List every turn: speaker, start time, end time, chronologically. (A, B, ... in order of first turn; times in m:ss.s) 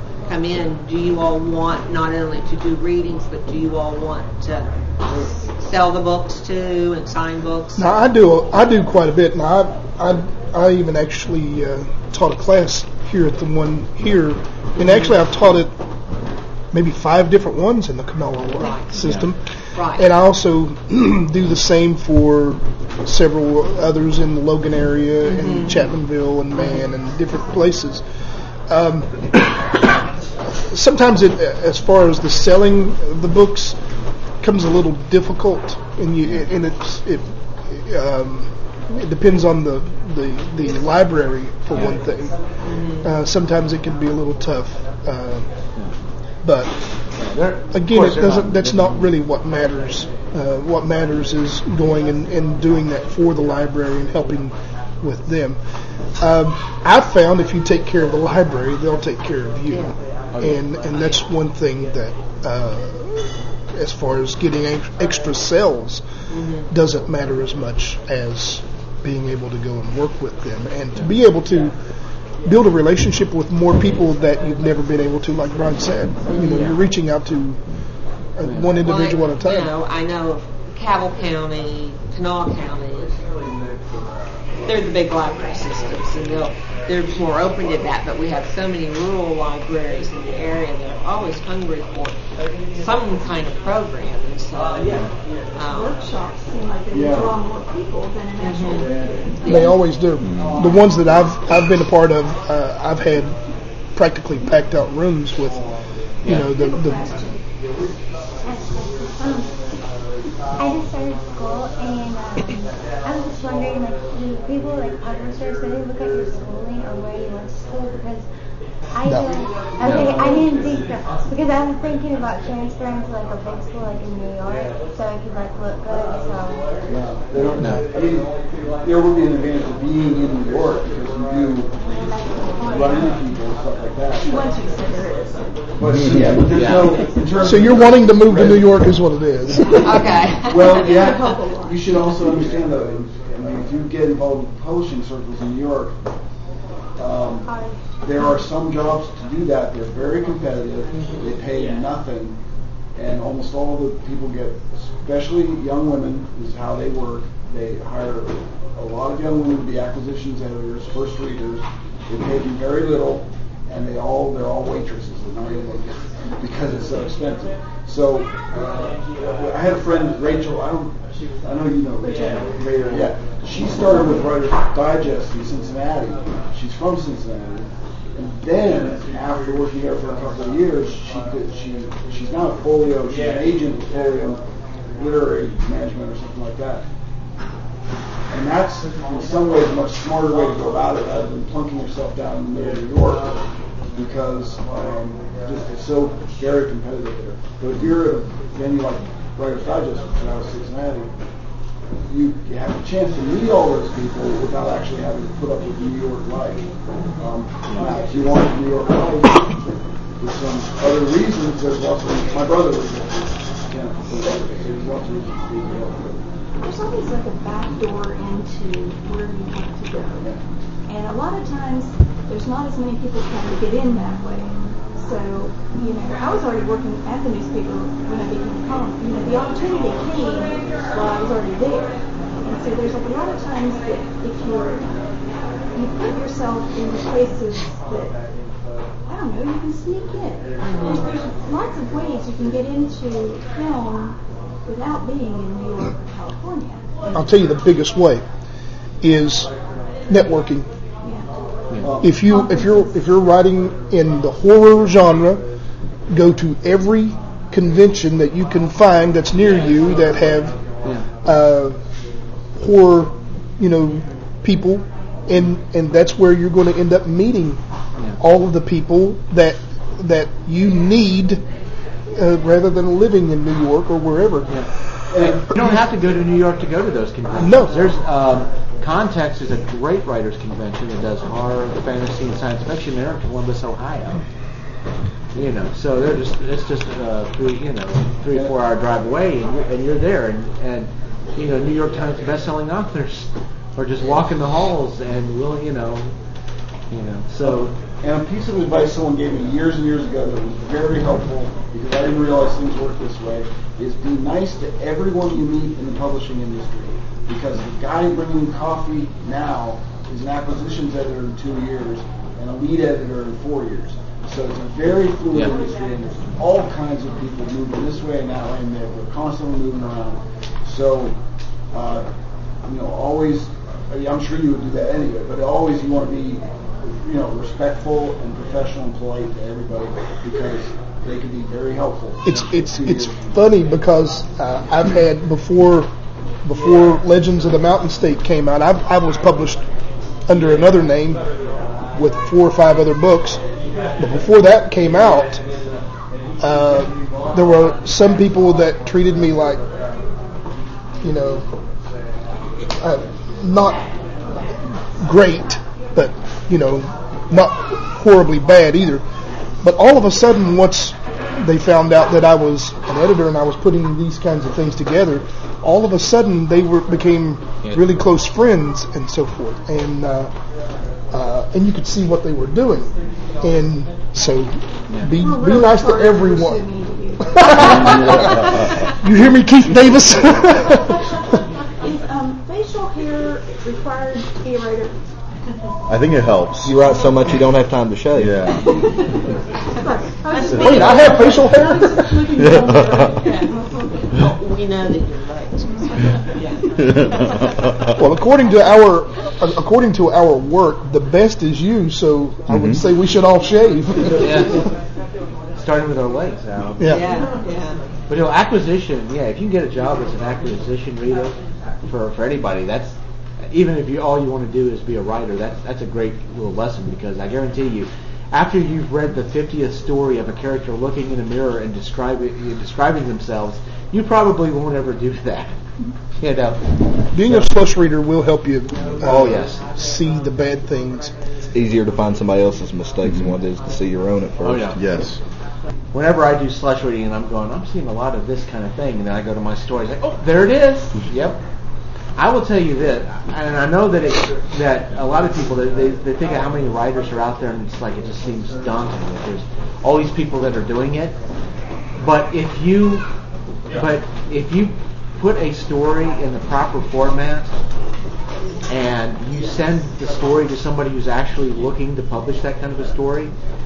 0:00.2-0:08.0 A
0:07.8-0:15.7 B
0:14.8-0:15.1 A
0:16.7-0:28.0 B
0:18.4-0:19.0 A
0:19.0-0:19.3 C
0:19.7-0:20.1 A
0:25.2-0:25.9 A
0:26.6-0:26.8 A
0:28.7-0:29.7 B
0:30.7-0:33.8 B
0:34.4-0:42.3 B
0:42.6-0:43.1 A
0:43.0-0:45.5 B
0:46.4-0:46.7 B
0:47.2-0:49.1 C
0:47.7-0:55.6 B
0:56.2-1:06.0 B
1:00.3-1:00.6 C
1:06.3-1:06.7 A
1:06.6-1:11.7 B
1:12.4-1:17.6 B
1:16.3-1:16.7 A
1:16.4-1:16.8 C
1:18.4-1:19.7 B
1:18.4-1:18.7 C
1:18.8-1:23.2 A
1:24.6-1:32.2 A
1:32.7-1:35.9 A
1:35.7-1:39.7 D
1:36.9-1:37.3 E
1:38.4-1:38.9 A
1:39.4-1:39.8 A
1:39.4-1:43.4 B
1:40.2-1:40.6 F
1:43.9-1:45.6 B
1:46.2-1:46.5 C
1:46.2-1:47.1 B
1:46.4-1:47.4 D
1:48.4-1:49.5 G
1:50.6-1:58.2 G
1:58.9-2:06.7 G
1:59.0-1:59.4 B
1:59.8-2:00.4 C
1:59.8-2:00.8 E
2:06.9-2:08.3 E
2:07.6-2:07.9 C
2:08.8-2:11.7 E
2:11.9-2:13.2 G
2:12.6-2:14.5 E
2:14.2-2:15.6 D
2:15.8-2:18.8 E
2:16.5-2:17.0 C
2:17.4-2:20.2 B
2:19.6-2:21.3 A
2:20.4-2:25.9 E
2:20.6-2:22.1 D
2:27.0-2:27.5 E
2:27.4-2:27.8 G
2:28.0-2:32.4 E
2:30.9-2:31.4 A
2:33.0-3:04.4 E
3:05.0-3:06.8 E
3:08.3-3:13.4 E
3:13.9-3:21.1 E
3:22.1-3:26.7 E
3:27.2-3:29.6 E
3:30.2-3:36.2 E
3:36.6-3:40.3 D
3:40.9-3:54.9 D
3:55.7-3:58.1 D
3:59.1-4:06.9 D
4:00.6-4:01.1 A
4:07.1-4:08.2 B
4:09.0-4:09.5 B
4:10.1-4:10.7 B
4:11.0-4:11.3 D
4:11.8-4:12.2 E
4:12.0-4:15.5 B
4:12.0-4:12.9 D
4:16.1-4:20.6 B
4:21.2-4:21.8 B
4:22.5-4:27.6 B
4:28.2-4:31.4 B
4:32.1-4:34.6 B
4:34.5-4:44.2 C
4:35.1-4:35.4 E
4:37.4-4:37.8 B
4:45.3-4:56.1 C
4:54.0-4:54.3 E
4:56.9-4:57.7 C
4:57.4-5:21.2 E
5:15.3-5:15.6 C
5:21.7-5:22.0 E
5:22.6-5:26.4 E
5:27.0-5:33.3 E
5:32.2-5:35.9 B
5:36.4-5:39.6 B
5:40.3-5:41.2 B
5:41.9-5:43.4 B
5:44.0-5:45.4 B
5:46.4-5:49.6 B
5:51.0-5:51.4 B
5:52.8-5:53.8 B
5:55.0-5:59.0 B
5:59.6-6:10.3 B
6:11.1-6:16.6 B
6:15.2-6:18.6 D
6:17.2-6:21.0 B
6:17.5-6:18.8 F
6:21.8-6:25.0 D
6:25.9-6:26.8 F
6:26.6-6:28.6 H
6:28.2-6:28.7 F
6:29.8-6:33.8 D
6:30.3-6:31.1 A
6:30.5-6:31.3 F
6:30.6-6:32.1 B
6:32.3-6:33.1 F
6:34.2-6:36.6 A
6:36.8-6:38.0 F
6:38.0-6:44.7 B
6:42.5-6:42.8 F
6:44.2-6:44.7 C
6:45.6-6:47.0 C
6:46.8-6:47.0 B
6:46.8-6:47.8 A
6:48.1-7:05.6 C
7:06.2-7:06.6 C
7:07.1-7:11.1 B
7:07.2-7:07.5 C
7:09.0-7:09.6 C
7:11.5-7:14.8 H
7:13.0-7:13.3 F
7:14.4-7:14.8 C
7:14.7-7:15.2 F
7:15.9-7:21.4 C
7:22.2-7:31.2 C
7:32.0-7:33.0 C
7:33.7-7:37.5 C
7:38.7-7:43.3 C